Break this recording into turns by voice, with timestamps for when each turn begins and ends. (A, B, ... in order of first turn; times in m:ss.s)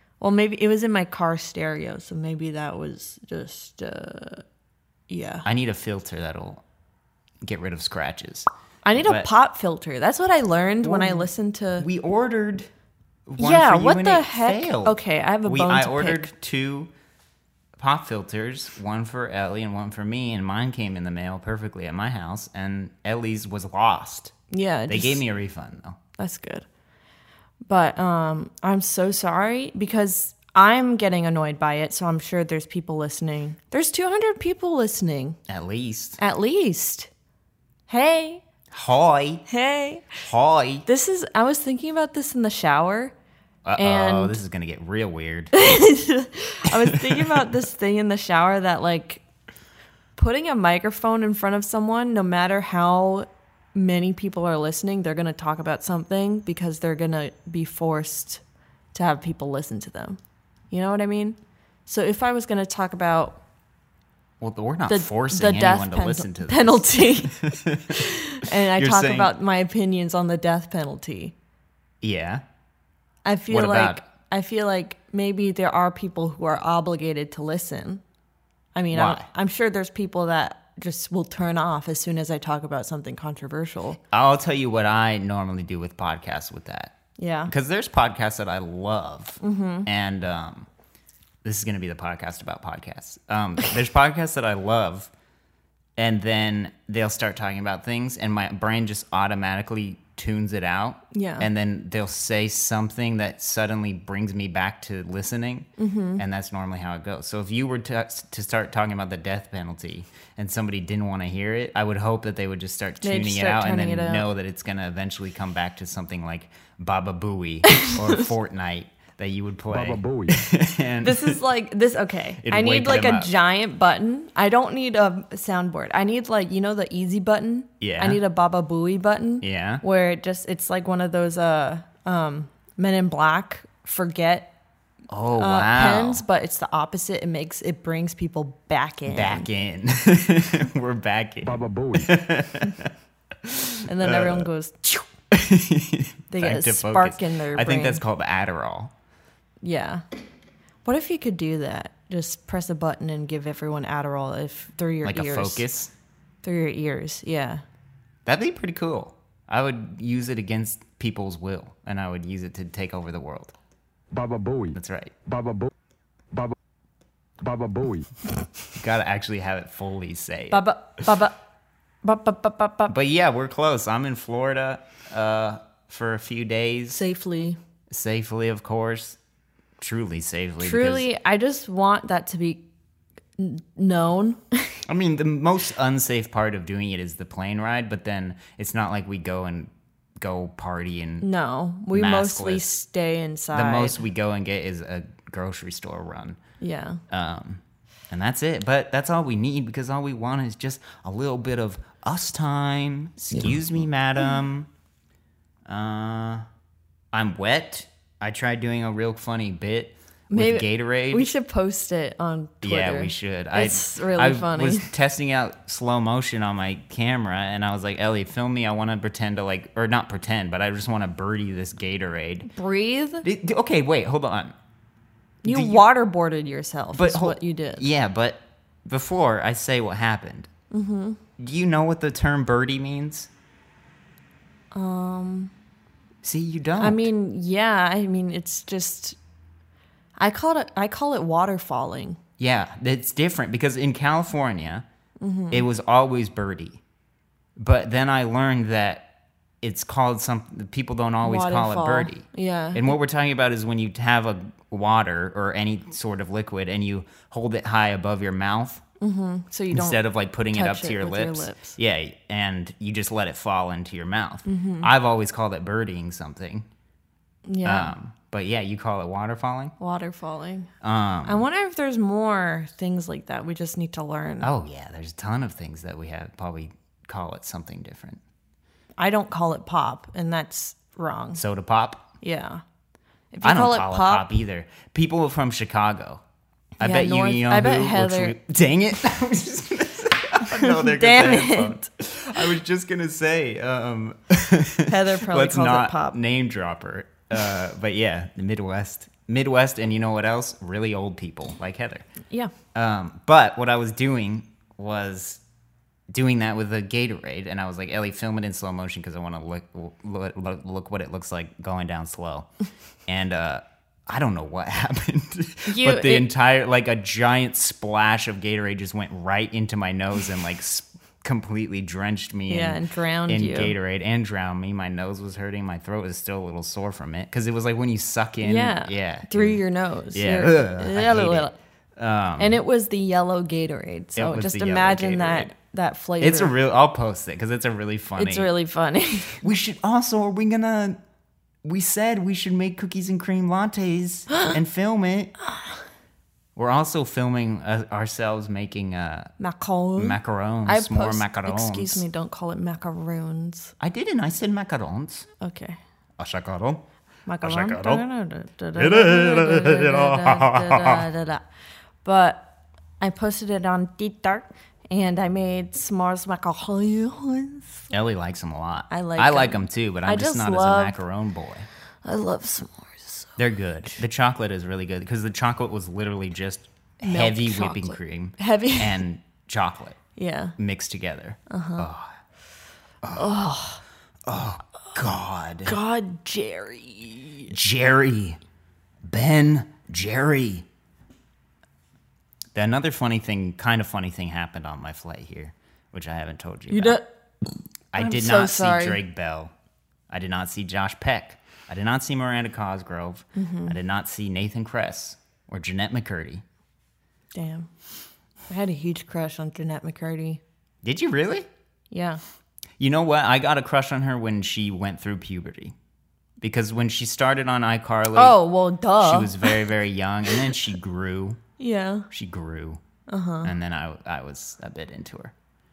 0:00.2-0:04.4 A
0:05.1-0:05.4 A
0:05.4-0:06.6 B
0:07.4-0:09.3 B
0:08.8-0:11.8 A
0:10.8-0:12.7 B
0:13.3-0:16.9 B
0:13.4-0:16.3 A
0:17.8-0:24.3 B
0:24.5-0:25.2 A
0:24.9-0:26.0 B
0:26.2-0:26.6 A
0:27.6-0:35.4 A
0:35.5-0:36.2 B
0:36.2-0:37.1 A
0:37.9-0:38.4 A
0:38.7-0:39.4 B
0:39.5-0:40.2 A
0:40.2-0:40.8 B
0:40.8-0:43.1 A
0:43.6-0:45.5 B
0:43.8-0:44.4 A
0:45.5-0:49.2 A
0:46.7-0:47.5 B
0:50.2-0:58.4 A
0:58.9-1:00.2 A
1:00.7-1:03.4 A
1:04.4-1:09.3 B
1:04.9-1:07.4 A
1:07.9-1:11.3 A
1:12.0-1:12.4 B
1:13.2-1:18.0 A
1:13.5-1:14.0 B
1:18.7-1:24.0 A
1:18.9-1:19.3 B
1:24.1-1:26.9 B
1:27.2-1:27.5 A
1:27.5-1:30.7 B
1:29.4-1:29.9 A
1:31.4-1:35.1 B
1:36.0-2:01.4 B
1:41.1-1:41.5 A
1:45.8-1:46.2 A
1:53.0-1:54.3 A
1:57.7-1:58.2 A
1:59.7-2:00.3 C
2:01.0-2:14.5 A
2:02.4-2:03.3 B
2:07.8-2:08.2 B
2:09.4-2:09.8 B
2:15.1-2:16.2 B
2:15.4-2:19.5 A
2:19.1-2:24.5 B
2:21.4-2:22.1 C
2:23.8-2:25.1 A
2:25.3-2:28.9 B
2:26.3-2:28.0 A
2:29.6-2:30.0 A
2:30.8-2:35.6 A
2:35.0-2:35.9 B
2:36.4-2:37.6 A
2:38.2-2:43.5 B
2:44.1-2:45.7 C
2:44.7-2:45.1 B
2:47.4-2:48.1 C
2:48.7-2:50.6 B
2:50.5-2:51.4 A
2:52.0-2:53.0 A
2:52.9-2:57.0 B
2:56.9-2:57.6 A
2:57.9-2:59.2 B
2:59.8-3:01.1 B
3:00.6-3:02.6 A
3:03.4-3:04.8 A
3:04.9-3:11.2 B
3:11.2-3:14.0 A
3:11.9-3:12.7 B
3:13.5-3:16.4 B
3:16.6-3:17.0 A
3:17.1-3:24.7 B
3:25.7-3:26.4 B
3:27.1-3:31.3 B
3:30.3-3:34.9 A
3:32.6-3:42.5 B
3:42.5-3:43.2 A
3:43.2-3:44.6 B
3:45.4-3:45.8 B
3:45.4-3:47.9 A
3:46.9-3:50.5 B
3:50.7-3:51.2 A
3:51.4-3:53.3 B
3:54.7-3:55.5 A
3:56.2-3:57.1 B
3:56.8-3:59.2 A
4:00.2-4:02.2 A
4:02.4-4:04.8 B
4:05.2-4:05.7 A
4:05.5-4:06.8 B
4:07.6-4:18.8 B
4:11.2-4:12.9 A
4:19.0-4:21.8 A
4:19.7-4:26.7 B
4:24.4-4:24.9 A
4:27.5-4:27.9 A
4:27.6-4:29.7 B
4:29.8-4:30.7 A
4:30.8-4:31.4 B
4:31.2-4:34.5 A
4:34.4-4:38.2 B
4:39.0-4:41.4 A
4:41.4-4:42.1 B
4:42.2-4:42.6 A
4:43.3-4:44.3 A
4:43.4-4:46.2 B
4:46.8-4:48.4 A
4:46.8-5:02.0 B
4:50.5-4:51.9 A
4:54.8-4:56.2 A
5:02.7-5:05.4 B
5:06.1-5:12.5 B
5:13.1-5:29.6 B
5:15.6-5:16.3 A
5:22.5-5:23.7 A
5:28.4-5:31.6 A
5:30.1-5:32.6 B
5:32.4-5:36.5 A
5:34.2-5:35.5 B
5:36.2-5:38.5 B
5:38.2-5:39.4 A
5:39.4-5:41.0 B
5:41.6-5:45.3 B
5:46.6-5:49.3 B
5:49.4-5:53.7 A
5:50.0-5:52.0 B
5:53.8-5:55.3 B
5:55.4-5:55.8 A
5:56.2-5:56.8 B
5:57.2-6:01.4 A
5:57.4-5:58.0 B
5:58.8-6:01.0 B
6:02.0-6:07.9 A
6:07.9-6:11.7 B
6:08.9-6:11.0 A
6:12.0-6:13.4 A
6:13.4-6:20.0 B
6:17.0-6:19.0 A
6:20.2-6:20.5 A
6:20.6-6:22.1 B
6:21.5-6:21.9 A
6:23.0-6:23.3 B
6:23.1-6:23.8 A
6:24.2-6:25.8 B
6:25.6-6:27.5 A
6:27.5-6:28.4 B
6:29.0-6:30.6 B
6:32.5-6:37.0 B
6:36.7-6:37.1 A
6:37.9-6:39.5 B
6:38.0-6:39.0 A
6:40.1-6:46.4 B
6:43.3-6:43.8 A
6:47.3-6:47.7 A
6:48.5-6:50.4 A
6:50.8-6:51.5 B
6:51.9-6:52.2 A
6:52.8-6:55.7 B
6:56.4-6:58.4 B
6:58.1-6:59.6 A
6:59.0-7:01.4 B
7:01.6-7:02.1 A
7:02.1-7:02.8 B
7:03.1-7:03.5 A
7:03.4-7:05.3 B